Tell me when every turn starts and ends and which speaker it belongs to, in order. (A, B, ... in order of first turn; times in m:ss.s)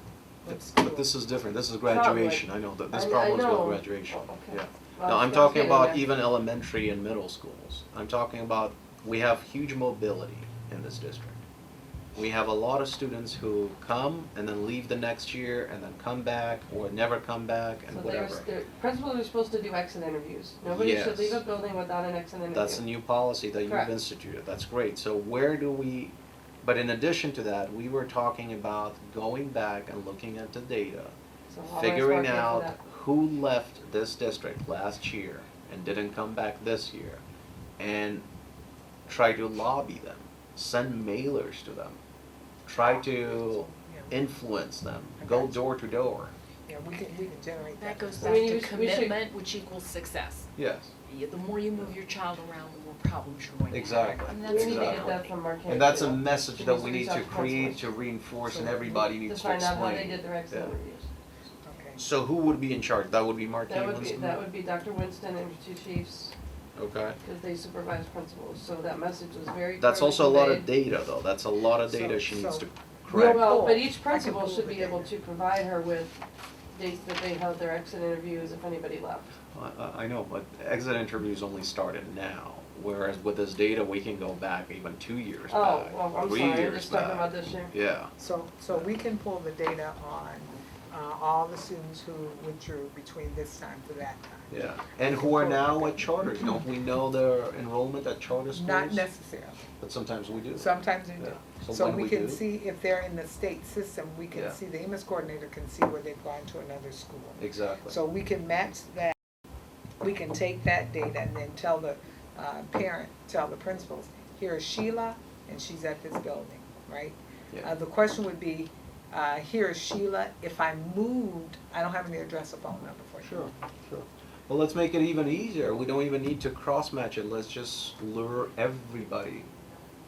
0:00.4-0:01.1 A
0:00.5-0:11.4 B
0:01.8-0:06.2 C
0:12.2-0:18.5 B
0:17.9-0:23.9 C
0:20.7-0:21.4 B
0:22.5-0:31.1 B
0:31.5-0:32.8 C
0:31.7-0:37.2 B
0:37.8-0:38.3 B
0:39.1-0:42.0 B
0:42.7-0:46.3 B
0:42.8-0:44.1 A
0:45.2-0:45.6 A
0:46.7-0:48.5 A
0:47.8-0:50.5 D
0:48.2-0:49.2 C
0:50.6-0:50.9 B
0:51.0-0:55.3 D
0:53.7-1:00.8 B
0:54.4-0:57.9 C
0:58.4-0:59.1 A
0:59.2-1:01.1 C
1:01.6-1:02.0 A
1:02.0-1:04.4 B
1:03.7-1:06.3 C
1:06.8-1:07.2 B
1:07.2-1:10.8 C
1:09.8-1:13.7 B
1:11.8-1:15.1 A
1:13.1-1:16.2 C
1:16.7-1:19.4 C
1:19.5-1:28.1 B
1:25.5-1:27.7 C
1:28.2-1:36.2 A
1:34.5-1:39.1 B
1:38.5-1:39.7 A
1:39.8-1:42.4 B
1:40.6-1:49.2 A
1:47.4-1:48.0 B
1:50.0-2:03.5 A
2:03.2-2:09.5 B